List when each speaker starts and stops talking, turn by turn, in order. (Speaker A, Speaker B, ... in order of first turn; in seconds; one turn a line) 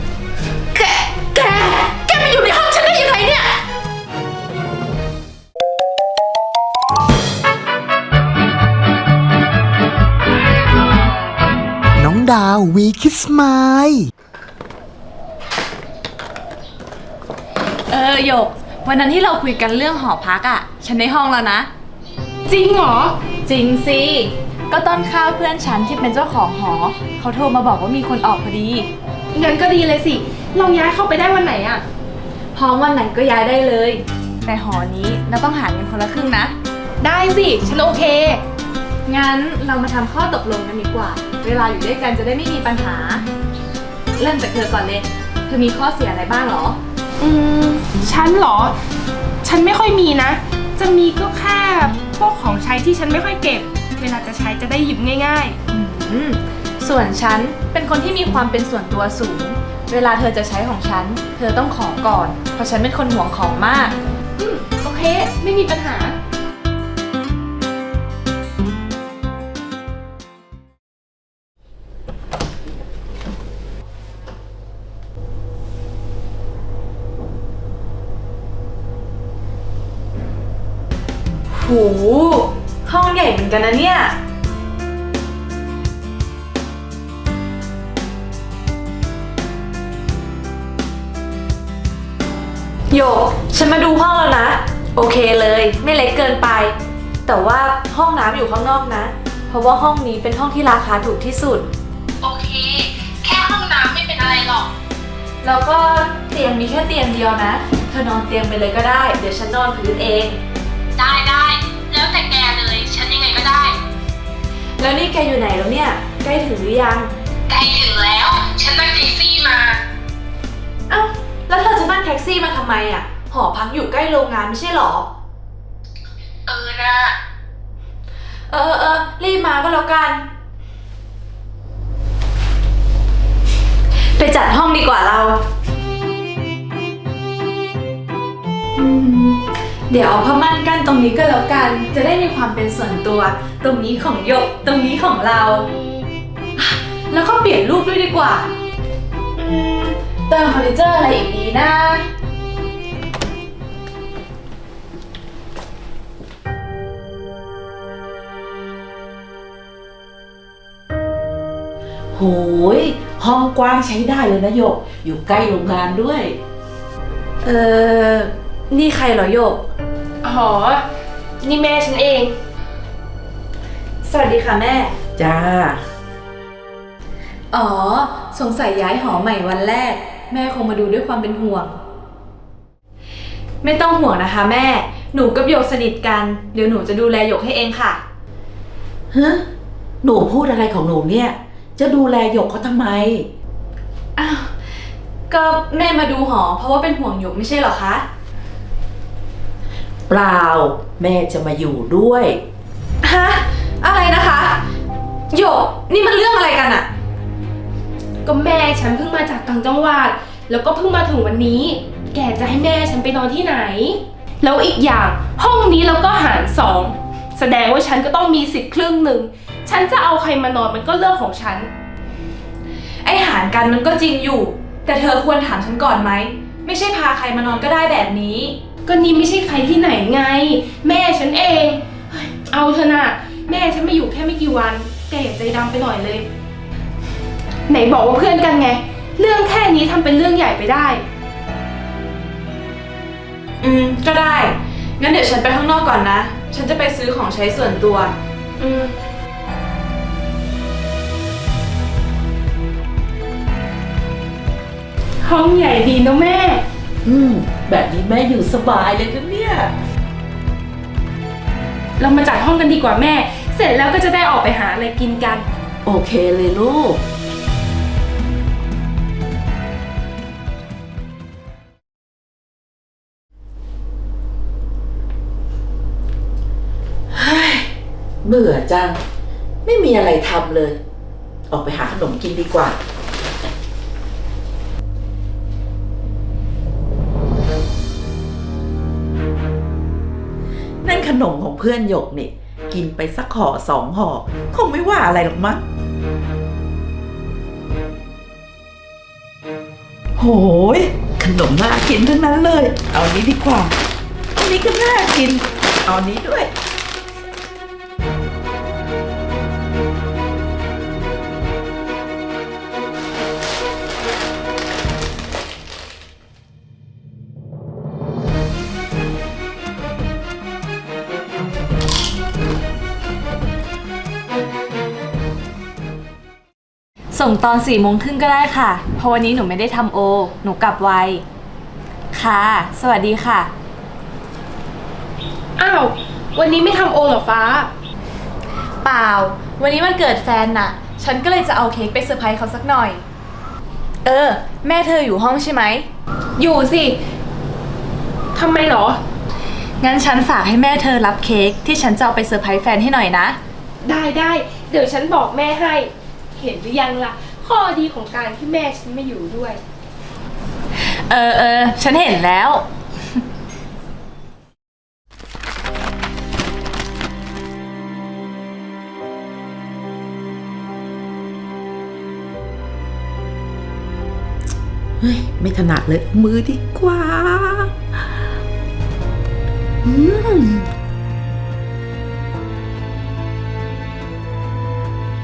Speaker A: 0.7-3.6
Speaker B: 12.0-14.1
Speaker A: 17.9-21.7
Speaker C: 22.5-23.2
Speaker A: 23.4-28.9
Speaker C: 29.3-31.8
Speaker A: 32.5-36.5
Speaker C: 37.0-38.4
Speaker A: 39.0-43.2
Speaker A: 44.1-46.8
Speaker C: 47.2-48.7
Speaker C: 49.4-55.6
Speaker A: 55.7-64.0
Speaker C: 64.4-66.2
Speaker A: 81.5-84.2
Speaker A: 92.9-96.7
Speaker A: 97.2-101.7
Speaker C: 102.2-102.7
Speaker C: 103.2-104.7
Speaker A: 105.4-110.4
Speaker C: 111.0-113.7
Speaker A: 114.8-117.1
Speaker C: 117.5-119.8
Speaker A: 120.9-125.1
Speaker A: 128.5-130.2
Speaker A: 134.1-135.4
Speaker A: 138.8-145.7
Speaker A: 146.6-148.5
Speaker A: 149.4-152.1
Speaker D: 162.1-166.4
Speaker A: 167.4-169.6
Speaker C: 170.2-170.8
Speaker C: 171.4-172.3
Speaker A: 174.0-174.9
Speaker D: 175.2-175.8
Speaker A: 177.5-181.8
Speaker A: 183.6-188.0
Speaker D: 189.1-189.4
Speaker D: 190.0-193.3
Speaker A: 194.2-194.5
Speaker A: 195.3-198.0
Speaker D: 200.1-202.4
Speaker A: 203.0-204.6
Speaker A: 205.3-206.9
Speaker C: 208.2-221.7
Speaker A: 223.0-228.6
Speaker C: 228.8-231.8
Speaker C: 232.3-236.2
Speaker C: 237.7-241.0
Speaker A: 243.6-248.1
Speaker C: 248.6-248.9
Speaker C: 255.2-256.6
Speaker D: 257.0-259.7
Speaker C: 262.0-265.4
Speaker D: 265.8-267.0
Speaker D: 277.1-277.7
Speaker D: 278.2-278.9
Speaker D: 279.6-280.8
Speaker D: 281.5-282.8
Speaker D: 290.8-295.6
Speaker D: 300.2-303.7
Speaker D: 304.4-306.5
Speaker A: 327.1-331.2
Speaker A: 332.1-333.5
Speaker C: 335.6-337.7
Speaker A: 338.8-343.0
Speaker A: 344.0-345.9
Speaker C: 346.4-347.0
Speaker C: 348.3-349.0
Speaker A: 349.8-353.4
Speaker C: 353.8-359.6
Speaker A: 360.8-362.7
Speaker D: 375.0-377.7
Speaker D: 379.8-380.7